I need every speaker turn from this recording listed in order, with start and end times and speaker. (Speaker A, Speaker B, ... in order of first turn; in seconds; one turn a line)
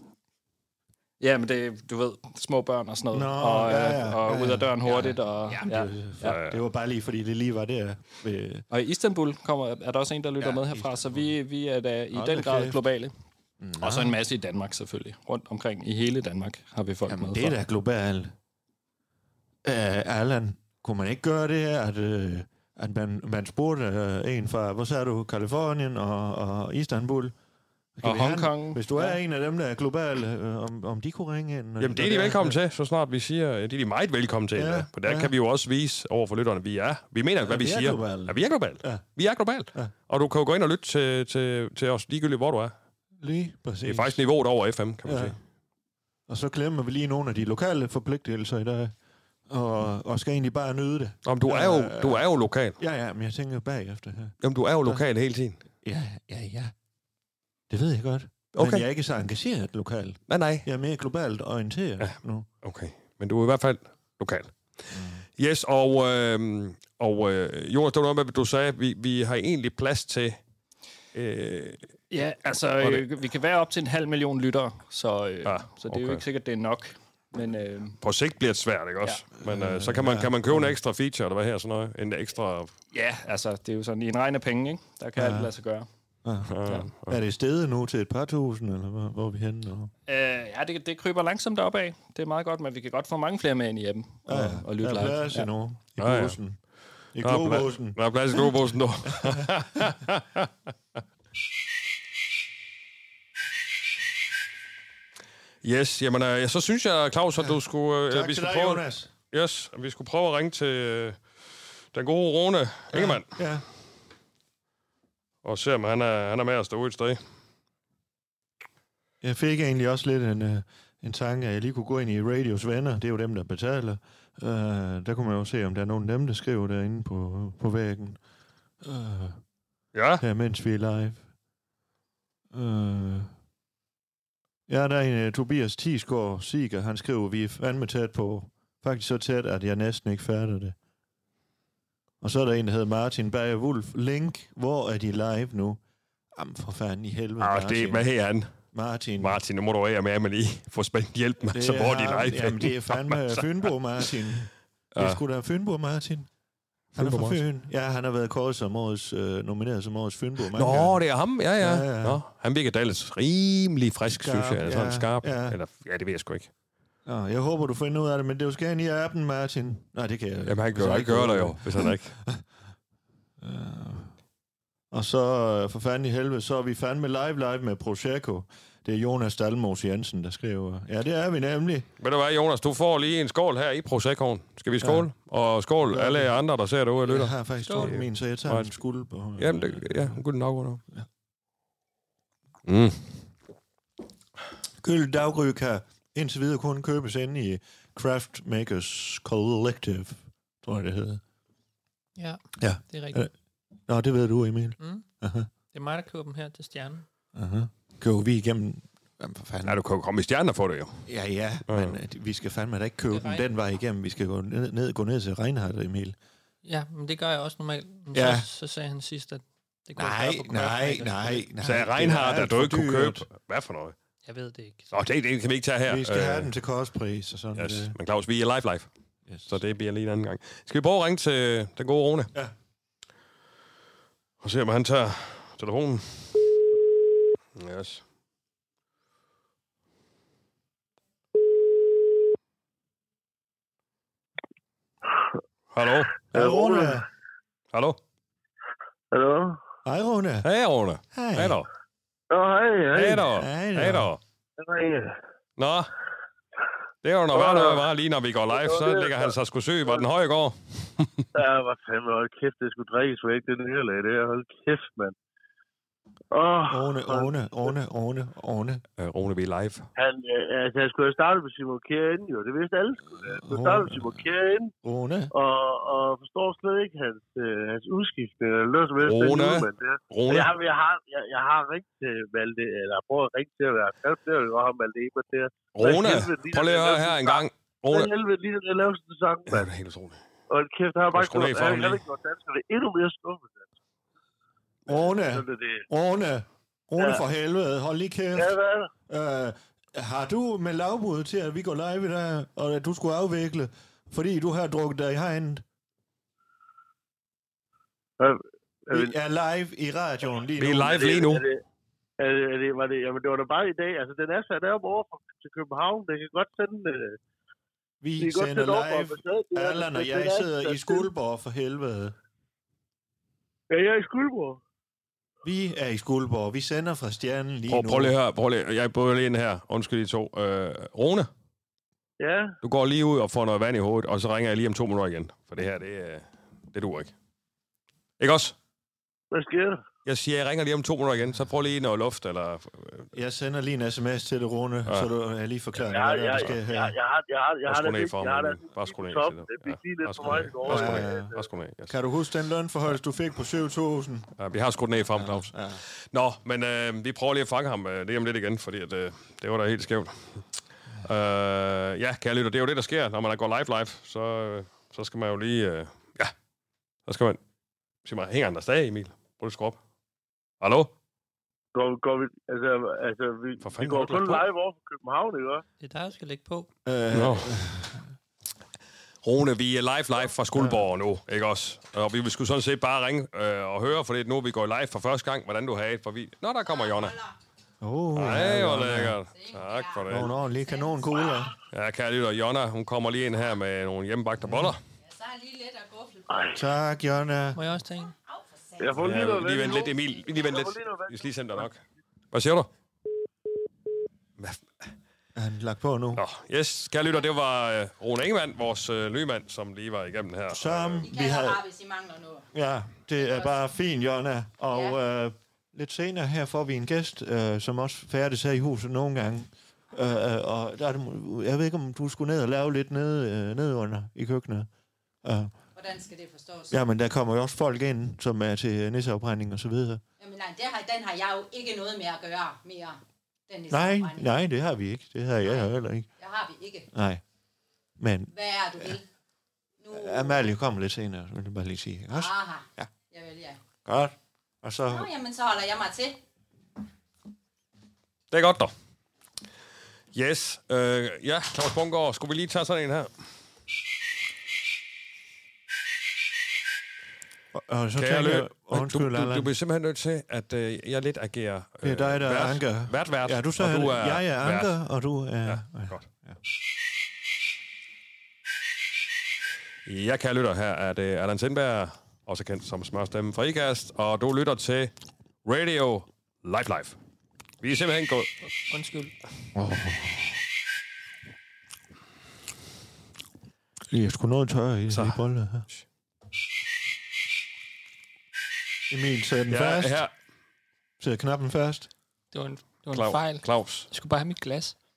Speaker A: 1.2-6.4
Speaker B: 3.1-8.7
Speaker C: 6.2-6.6
Speaker A: 8.7-13.1
Speaker B: 10.4-11.3
Speaker B: 12.1-12.8
Speaker B: 13.6-14.2
Speaker A: 13.8-17.6
Speaker B: 17.1-18.3
Speaker B: 19.6-27.4
Speaker B: 28.0-32.6
Speaker A: 28.0-29.2
Speaker C: 31.8-42.7
Speaker B: 34.5-35.3
Speaker B: 37.4-39.1
Speaker B: 43.2-44.2
Speaker C: 43.9-45.4
Speaker B: 45.0-45.4
Speaker B: 46.3-48.9
Speaker B: 49.5-52.3
Speaker C: 51.2-52.8
Speaker B: 52.8-55.0
Speaker C: 54.4-55.6
Speaker B: 55.8-56.7
Speaker B: 57.7-62.5
Speaker C: 58.5-58.9
Speaker C: 60.3-60.7
Speaker C: 62.0-64.8
Speaker B: 64.9-65.2
Speaker C: 65.4-70.4
Speaker C: 71.1-71.9
Speaker A: 72.1-78.0
Speaker C: 72.8-73.1
Speaker C: 75.5-76.2
Speaker C: 78.0-82.7
Speaker B: 79.4-80.8
Speaker A: 82.9-85.9
Speaker B: 85.2-85.5
Speaker B: 86.2-89.9
Speaker C: 86.5-87.2
Speaker A: 86.6-86.9
Speaker A: 90.1-95.5
Speaker B: 94.3-96.6
Speaker C: 96.0-96.4
Speaker B: 97.1-98.5
Speaker C: 97.2-100.5
Speaker B: 99.1-99.9
Speaker C: 105.6-111.2
Speaker B: 108.1-109.1
Speaker C: 111.9-113.3
Speaker B: 112.9-113.7
Speaker C: 115.4-117.2
Speaker B: 119.2-128.2
Speaker B: 128.8-129.4
Speaker C: 129.9-130.2
Speaker B: 130.2-131.2
Speaker B: 132.5-133.3
Speaker B: 134.7-140.8
Speaker B: 142.2-145.8
Speaker B: 146.3-148.1
Speaker C: 147.4-148.5
Speaker B: 148.7-149.4
Speaker C: 149.2-153.4
Speaker B: 151.5-156.3
Speaker C: 154.9-155.2
Speaker C: 156.9-157.4
Speaker B: 157.0-161.0
Speaker C: 160.5-166.5
Speaker B: 161.6-162.2
Speaker B: 164.1-165.6
Speaker B: 167.1-172.4
Speaker C: 170.5-172.2
Speaker B: 173.4-174.1
Speaker B: 174.9-181.9
Speaker C: 182.0-188.7
Speaker B: 184.8-185.1
Speaker B: 185.8-186.4
Speaker B: 187.1-190.2
Speaker D: 187.7-187.9
Speaker C: 189.4-190.8
Speaker C: 192.7-193.1
Speaker B: 194.8-201.2
Speaker D: 202.2-203.3
Speaker B: 202.6-203.3
Speaker B: 203.9-205.5
Speaker D: 204.8-205.1
Speaker D: 205.7-207.1
Speaker B: 207.3-209.8
Speaker C: 209.7-211.1
Speaker B: 211.1-216.2
Speaker C: 211.7-212.0
Speaker D: 213.1-213.5
Speaker D: 216.6-221.5
Speaker B: 218.1-218.5
Speaker B: 220.0-223.3
Speaker C: 221.6-223.9
Speaker D: 224.3-225.0
Speaker C: 224.9-226.5
Speaker B: 225.9-227.9
Speaker C: 227.6-228.9
Speaker B: 229.3-229.5
Speaker C: 229.5-232.3
Speaker C: 234.4-236.4
Speaker C: 237.6-238.0
Speaker C: 245.7-246.2
Speaker E: 246.3-247.0
Speaker B: 246.3-247.1
Speaker C: 247.7-248.0
Speaker E: 249.1-249.6
Speaker B: 249.8-250.5
Speaker C: 250.4-251.7
Speaker B: 251.1-251.7
Speaker E: 252.3-253.3
Speaker C: 252.9-254.2
Speaker B: 253.3-254.1
Speaker E: 254.6-255.2
Speaker C: 255.6-255.9
Speaker C: 257.0-261.3
Speaker E: 257.3-257.8
Speaker E: 258.5-259.3
Speaker E: 261.4-265.1
Speaker E: 266.3-267.7
Speaker B: 266.7-268.8
Speaker C: 269.0-269.9
Speaker E: 270.0-274.7
Speaker B: 273.1-274.2
Speaker B: 274.8-275.3
Speaker E: 275.3-289.7
Speaker C: 279.0-280.5
Speaker C: 285.8-288.1
Speaker C: 289.5-290.2
Speaker E: 290.5-293.7
Speaker C: 291.1-292.0
Speaker B: 294.9-298.6
Speaker E: 294.9-295.9
Speaker E: 298.4-298.9
Speaker B: 299.1-305.6
Speaker E: 308.2-309.1
Speaker B: 308.9-311.0
Speaker C: 310.6-311.4
Speaker E: 310.8-311.6
Speaker E: 312.2-317.2
Speaker B: 318.0-322.1
Speaker E: 318.2-321.1
Speaker E: 323.7-324.6
Speaker B: 325.4-328.1
Speaker C: 327.7-331.3
Speaker E: 332.2-332.5
Speaker C: 332.6-337.1
Speaker C: 338.2-338.6
Speaker E: 339.3-339.8
Speaker C: 340.1-343.1
Speaker B: 343.1-347.0
Speaker E: 345.9-351.4
Speaker C: 347.7-352.0
Speaker B: 350.6-351.3
Speaker B: 351.9-354.3
Speaker C: 354.4-355.6
Speaker B: 355.1-355.8
Speaker C: 356.1-360.4
Speaker C: 361.0-366.3
Speaker C: 367.1-367.4
Speaker C: 368.1-369.8
Speaker C: 370.6-370.9
Speaker E: 371.7-375.6
Speaker C: 373.6-374.4
Speaker D: 375.8-376.7
Speaker B: 376.9-378.1
Speaker C: 377.1-377.6
Speaker C: 379.2-387.2
Speaker B: 380.5-380.8
Speaker F: 386.7-387.3
Speaker B: 387.8-389.2
Speaker C: 388.2-390.3
Speaker F: 389.3-391.5
Speaker B: 390.1-391.5
Speaker C: 391.7-394.8
Speaker B: 394.4-394.7
Speaker F: 395.0-396.5
Speaker E: 396.3-396.6
Speaker B: 396.6-397.6
Speaker D: 397.5-398.1
Speaker F: 398.3-399.8
Speaker E: 398.8-401.7
Speaker C: 399.0-401.8
Speaker C: 402.3-402.7
Speaker C: 404.4-404.9
Speaker B: 405.4-406.2
Speaker C: 406.2-411.1
Speaker B: 410.5-411.6
Speaker F: 411.0-412.5
Speaker B: 412.5-424.7
Speaker F: 413.2-413.5
Speaker F: 414.7-415.0
Speaker B: 425.2-425.5
Speaker F: 425.8-426.8
Speaker B: 426.7-430.0
Speaker F: 430.2-434.3
Speaker B: 433.7-436.1
Speaker F: 435.4-436.9
Speaker B: 436.9-437.2
Speaker B: 438.0-439.0
Speaker F: 438.3-439.0
Speaker F: 439.8-440.4
Speaker B: 439.9-442.9
Speaker F: 442.1-443.6
Speaker B: 443.9-445.1
Speaker F: 444.9-446.2
Speaker C: 448.3-448.7
Speaker C: 450.1-453.1
Speaker B: 457.5-459.5
Speaker C: 458.0-464.7
Speaker B: 461.8-466.4
Speaker C: 465.4-466.0
Speaker C: 469.9-474.9
Speaker C: 475.4-477.0
Speaker C: 477.6-478.3
Speaker D: 478.7-479.1
Speaker B: 479.6-480.2
Speaker B: 483.9-485.7
Speaker C: 484.9-485.8
Speaker B: 488.9-490.0
Speaker C: 489.5-490.1
Speaker B: 491.0-491.9
Speaker D: 492.3-494.8
Speaker C: 492.9-493.9